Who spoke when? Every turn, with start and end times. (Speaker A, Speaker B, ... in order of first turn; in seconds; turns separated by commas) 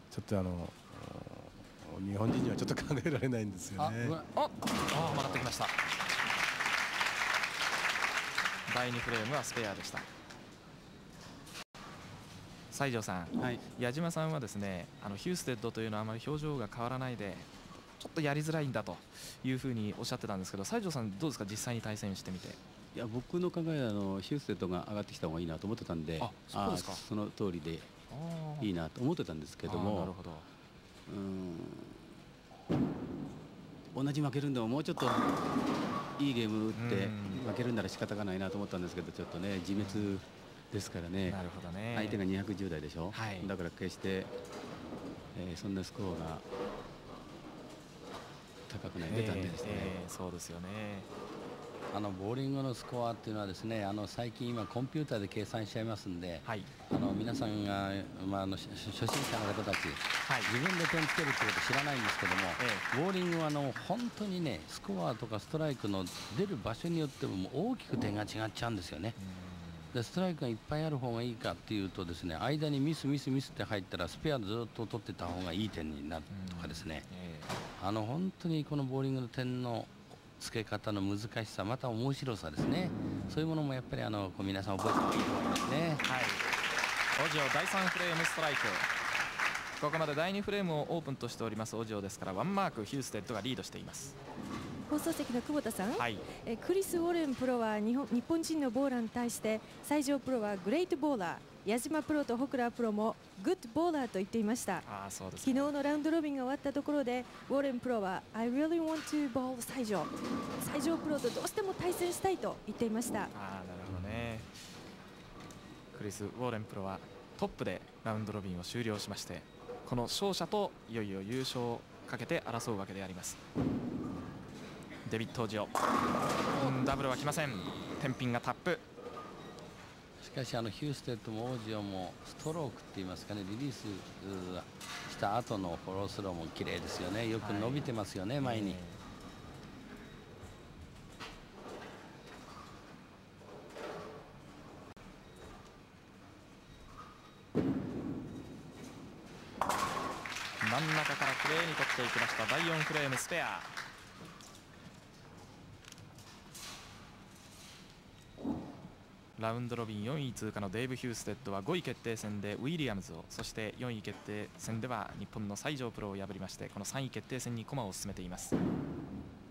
Speaker A: 0.1-4.2, Speaker B: 3.8-4.3, Speaker C: 4.3-5.7, Speaker B: 5.0-5.4, Speaker C: 8.7-10.1, Speaker C: 12.7-22.6, Speaker D: 13.4-13.6, Speaker D: 22.9-27.9, Speaker C: 26.2-27.0, Speaker C: 28.1-28.7, Speaker D: 28.6-30.1, Speaker C: 29.6-30.5, Speaker D: 31.1-32.0, Speaker D: 33.9-35.3, Speaker D: 36.2-41.4, Speaker C: 36.7-37.5, Speaker C: 39.8-40.1, Speaker C: 41.3-42.2, Speaker D: 41.9-44.3, Speaker C: 43.1-43.5, Speaker D: 45.3-46.4, Speaker D: 48.7-49.9, Speaker C: 49.0-51.1, Speaker B: 51.9-69.2, Speaker C: 56.4-56.7, Speaker C: 60.2-60.5, Speaker C: 62.6-62.8, Speaker C: 69.2-69.9, Speaker B: 69.9-77.0, Speaker C: 76.3-77.5, Speaker B: 77.8-86.0, Speaker C: 83.1-83.4, Speaker C: 86.0-86.4, Speaker C: 87.2-88.9, Speaker C: 89.8-94.2, Speaker E: 94.9-104.8, Speaker C: 96.0-96.2, Speaker C: 104.8-105.7, Speaker E: 105.4-113.3, Speaker C: 113.3-114.5, Speaker C: 115.9-123.4, Speaker C: 125.0-125.7, Speaker C: 126.5-128.8, Speaker B: 126.5-126.9, Speaker B: 130.2-138.8, Speaker C: 137.4-137.9, Speaker C: 138.4-139.0, Speaker C: 150.6-153.7, Speaker C: 159.4-168.5